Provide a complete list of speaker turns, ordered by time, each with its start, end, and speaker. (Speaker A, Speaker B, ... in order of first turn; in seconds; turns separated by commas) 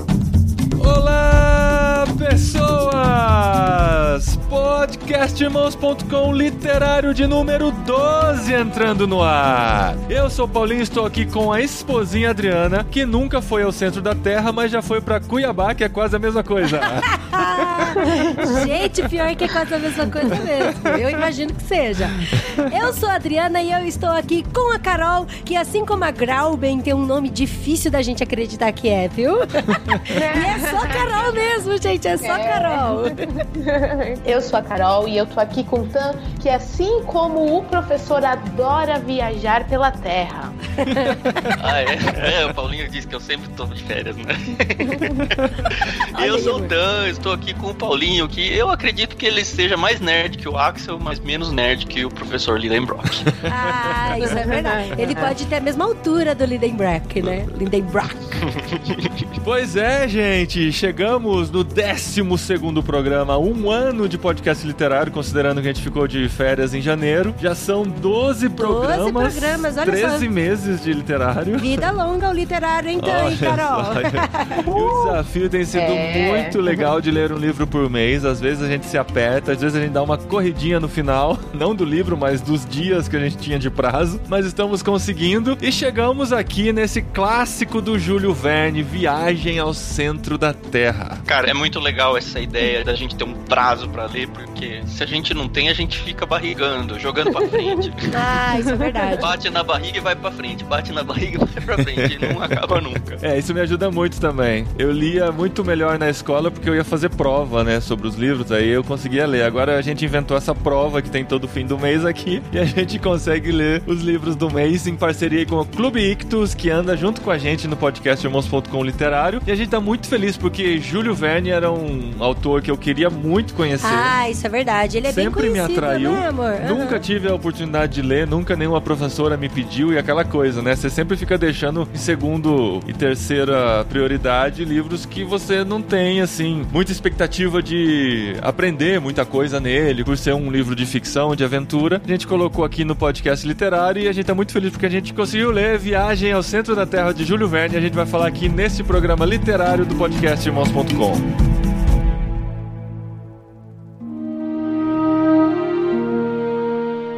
Speaker A: 0.8-18.8, Speaker B: 16.7-33.3, Speaker C: 18.0-18.6, Speaker A: 20.3-20.7, Speaker C: 30.1-31.3, Speaker C: 32.2-40.6, Speaker B: 40.8-41.5, Speaker A: 40.9-41.6, Speaker D: 41.6-53.3, Speaker C: 44.9-45.3, Speaker B: 46.1-46.7, Speaker A: 53.2-54.3, Speaker B: 53.5-58.4, Speaker C: 54.2-55.4, Speaker D: 58.4-59.2, Speaker A: 59.4-71.9, Speaker B: 68.6-70.3, Speaker B: 71.6-75.1, Speaker A: 73.0-91.2, Speaker C: 75.7-76.9, Speaker D: 91.3-98.2, Speaker C: 97.3-97.8, Speaker B: 98.1-99.3, Speaker C: 98.7-99.2, Speaker D: 99.2-103.2, Speaker A: 101.8-124.1, Speaker B: 123.8-127.0, Speaker A: 125.1-151.2